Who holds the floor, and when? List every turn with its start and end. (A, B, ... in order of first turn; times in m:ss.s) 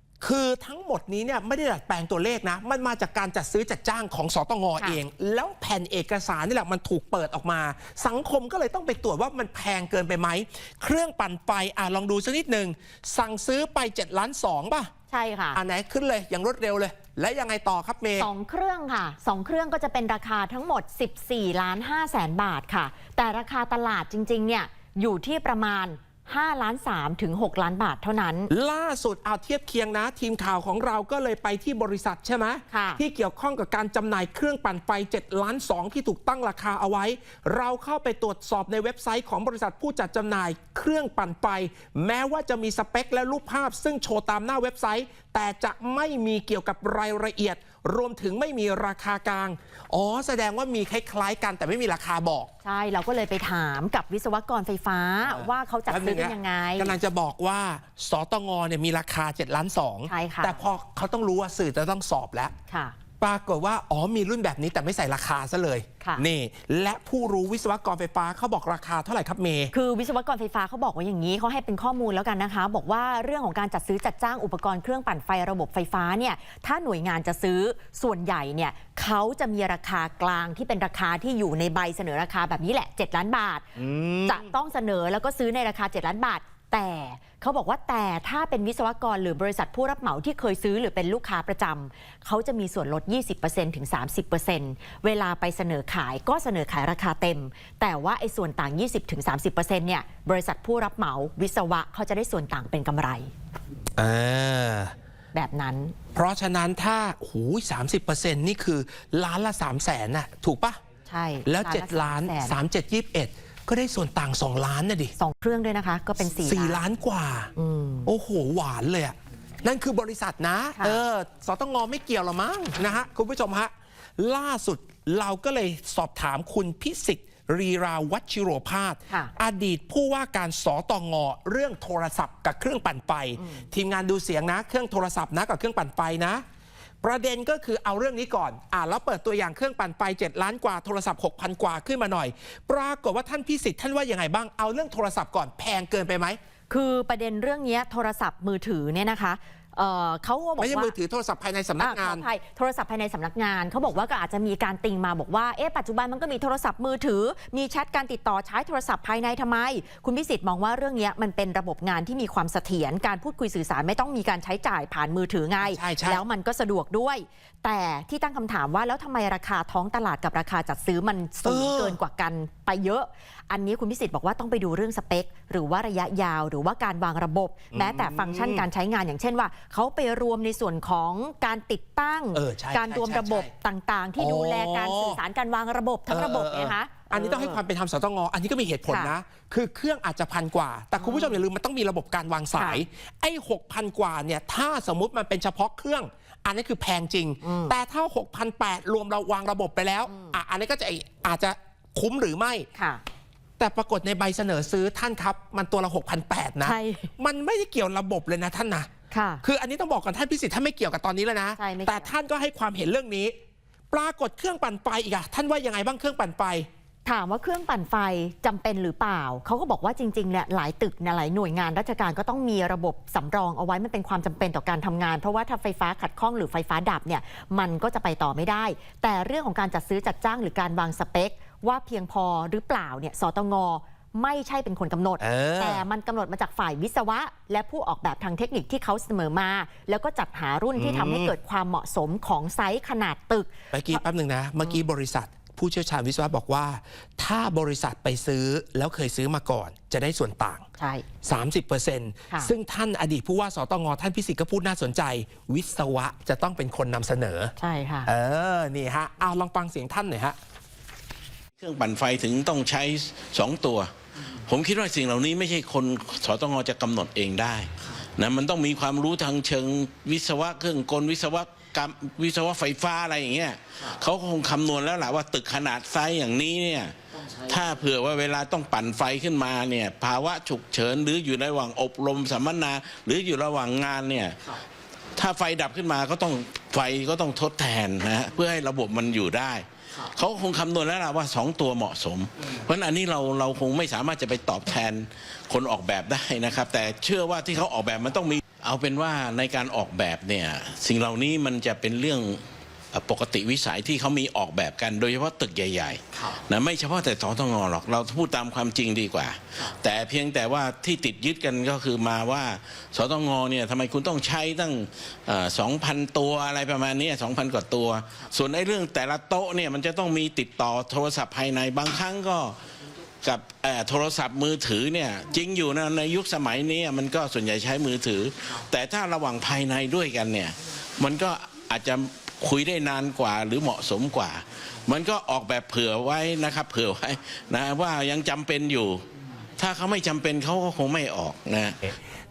0:00.2-0:14.9 A
0:15.1-0:15.6 B
0:15.5-0:18.3 A
0:18.2-0:28.5 B
0:28.5-0:52.5 A
0:32.7-0:33.0 B
0:52.6-0:57.0 B
0:55.2-1:02.5 A
1:00.1-1:00.6 B
1:02.7-1:03.0 B
1:03.2-1:09.7 A
1:09.7-1:23.7 B
1:23.8-1:24.5 A
1:24.3-1:43.3 B
1:44.0-1:44.9 A
1:45.3-1:46.0 B
1:46.2-1:50.8 A
1:51.1-1:52.6 B
1:51.5-1:55.1 A
1:55.2-1:56.8 B
1:56.4-1:57.5 A
1:57.6-1:58.1 B
1:58.1-2:16.4 A
2:17.0-2:26.4 A
2:26.7-2:31.0 B
2:30.6-2:32.2 A
2:31.8-3:07.6 B
2:45.6-2:46.2 A
2:51.4-2:52.0 A
2:57.7-2:58.7 A
3:02.3-3:03.5 A
3:04.2-3:05.2 A
3:06.1-3:22.7 A
3:11.0-3:11.4 B
3:12.6-3:12.8 B
3:17.4-3:17.7 B
3:22.8-3:23.0 B
3:23.6-3:28.9 A
3:26.6-3:27.1 B
3:29.1-3:29.4 B
3:29.4-3:33.3 A
3:31.6-3:32.1 B
3:33.9-3:36.7 A
3:37.1-4:04.0 B
3:55.2-3:55.8 A
4:00.8-4:01.3 A
4:03.7-4:10.7 A
4:10.8-4:11.1 B
4:11.2-4:17.5 A
4:17.6-4:18.1 B
4:18.1-4:20.4 A
4:21.6-4:23.9 C
4:24.5-4:44.6 C
4:45.2-5:22.6 C
5:23.2-5:39.0 C
5:39.6-5:41.9 C